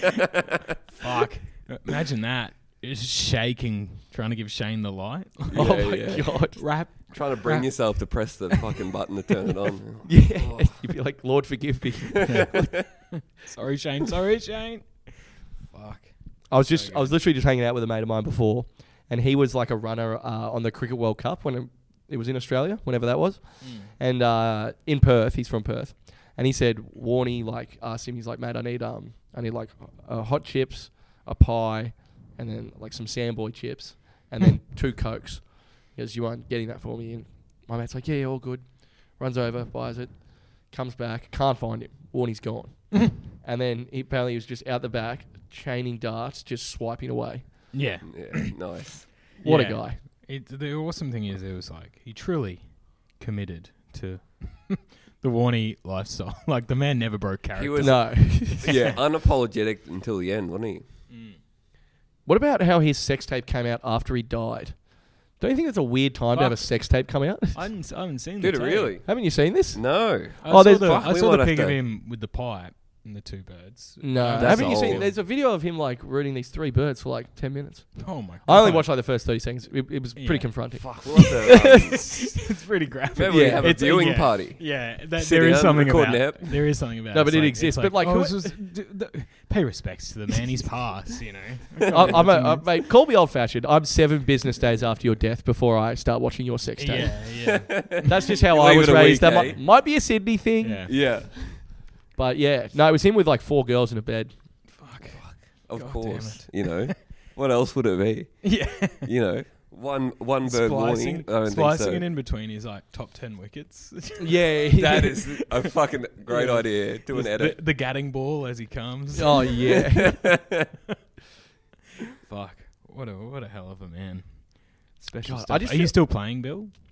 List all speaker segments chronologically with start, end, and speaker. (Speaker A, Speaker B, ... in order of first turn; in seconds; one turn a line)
Speaker A: 0.9-8.4
Speaker B: 5.5-10.9
Speaker C: 5.5-6.8
Speaker C: 10.1-12.7
Speaker B: 12.2-12.8
Speaker A: 12.2-17.2
Speaker C: 16.5-47.7
Speaker A: 23.6-23.9
Speaker A: 47.7-48.7
Speaker B: 48.0-49.1
Speaker A: 49.4-59.0
Speaker C: 49.4-50.0
Speaker B: 57.6-60.9
Speaker C: 57.8-58.8
Speaker A: 61.1-61.4
Speaker C: 62.2-67.7
Speaker A: 66.3-69.0
Speaker B: 68.4-71.8
Speaker C: 69.0-70.8
Speaker A: 70.4-75.2
Speaker C: 74.0-82.1
Speaker B: 74.3-75.1
Speaker A: 78.0-78.9
Speaker A: 80.2-92.7
Speaker B: 80.8-82.3
Speaker B: 83.2-86.8
Speaker C: 83.3-83.8
Speaker C: 87.1-88.6
Speaker C: 91.9-101.0
Speaker B: 91.9-92.3
Speaker A: 96.8-98.1
Speaker B: 97.3-99.6
Speaker A: 100.6-100.9
Speaker B: 100.9-101.7
Speaker C: 102.2-104.8
Speaker A: 104.7-107.0
Speaker B: 105.1-112.1
Speaker A: 108.4-109.1
Speaker A: 110.4-115.3
Speaker C: 114.2-115.2
Speaker B: 114.8-117.6
Speaker A: 116.3-119.6
Speaker C: 119.1-120.3
Speaker B: 119.8-120.7
Speaker A: 122.2-126.7
Speaker C: 125.2-126.0